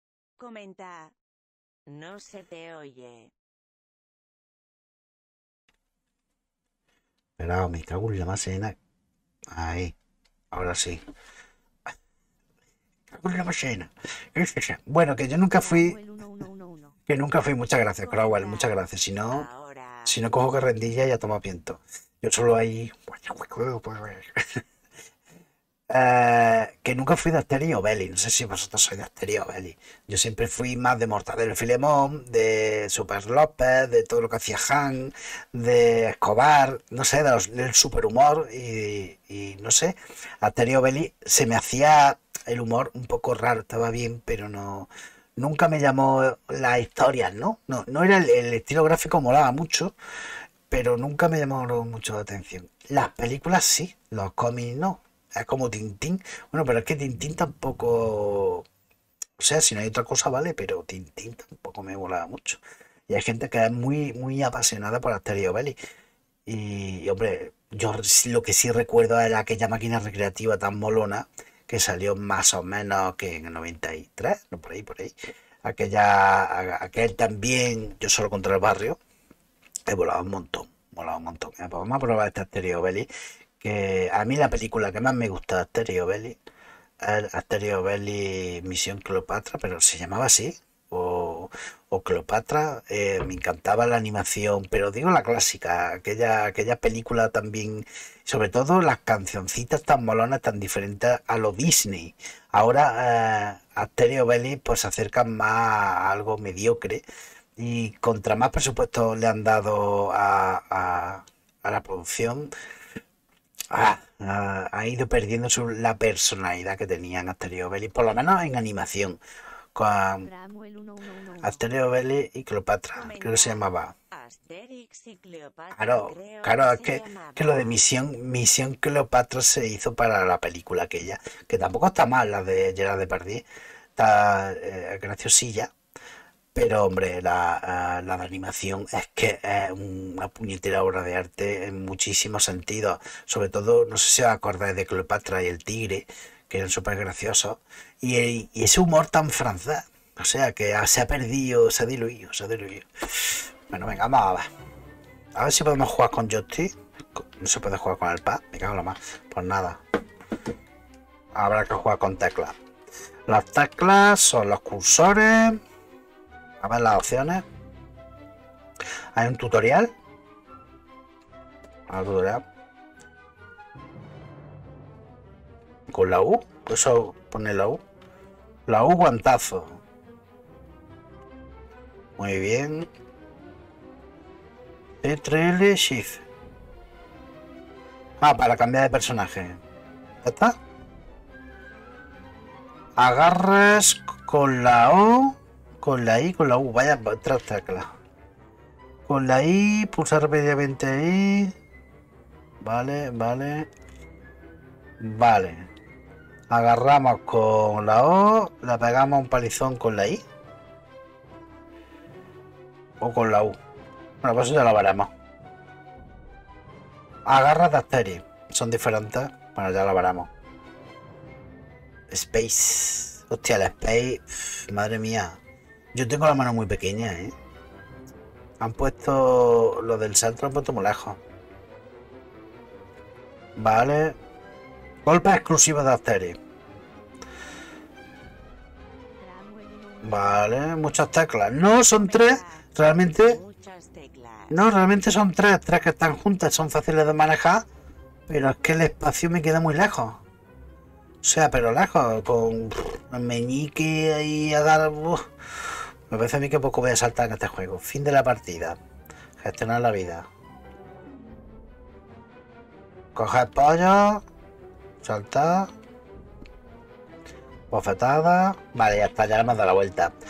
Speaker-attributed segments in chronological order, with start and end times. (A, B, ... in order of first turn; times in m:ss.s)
0:00.4-0:01.1 A
0:01.9-0:03.3 A
0:07.4-0:08.8 B
0:09.5-0:09.9 B
0:10.5-0:11.0 B
0:13.1-0:16.0 B
0:15.6-0:17.0 C
0:17.1-0:19.5 B
0:18.0-0:20.2 A
0:20.0-0:24.6 B
0:25.9-0:49.9 B
0:50.7-0:58.7 B
0:59.4-1:05.8 B
1:06.5-1:19.0 B
1:19.9-1:23.1 B
1:23.6-1:26.4 B
1:27.0-1:47.0 B
1:47.6-1:52.5 B
1:53.7-1:59.2 B
1:59.8-2:00.3 B
2:00.2-2:01.7 C
2:01.4-2:03.9 B
2:03.0-2:07.8 A
2:05.7-2:13.4 B
2:14.0-2:15.7 B
2:16.5-2:34.5 B
2:35.4-2:39.8 B
2:41.4-2:42.6 B
2:43.3-2:45.6 B
2:46.6-2:47.4 B
2:49.2-2:49.9 B
2:51.9-2:52.4 B
2:55.9-2:57.8 B
2:58.7-2:59.8 B
3:02.2-3:02.9 B
3:05.0-3:06.2 B
3:08.2-3:09.6 B
3:10.2-3:10.6 B
3:13.0-3:17.9 B
3:19.1-3:21.5 B
3:22.6-3:23.7 B
3:25.0-3:25.7 B
3:26.5-3:30.2 B
3:33.0-3:33.6 B
3:34.2-3:35.1 B
3:37.3-3:40.3 B
3:42.1-3:45.4 B
3:45.9-3:47.3 B
3:48.6-3:51.2 B
3:53.6-3:54.2 B
3:55.0-3:56.4 B
3:59.2-4:00.4 C
4:00.0-4:03.4 B
4:01.9-4:04.6 A
4:04.5-4:07.7 B
4:08.3-4:10.2 B
4:11.2-4:15.3 B
4:16.1-4:18.8 B
4:19.4-4:20.3 B
4:23.2-4:24.2 B
4:25.0-4:25.7 B
4:27.7-4:30.1 B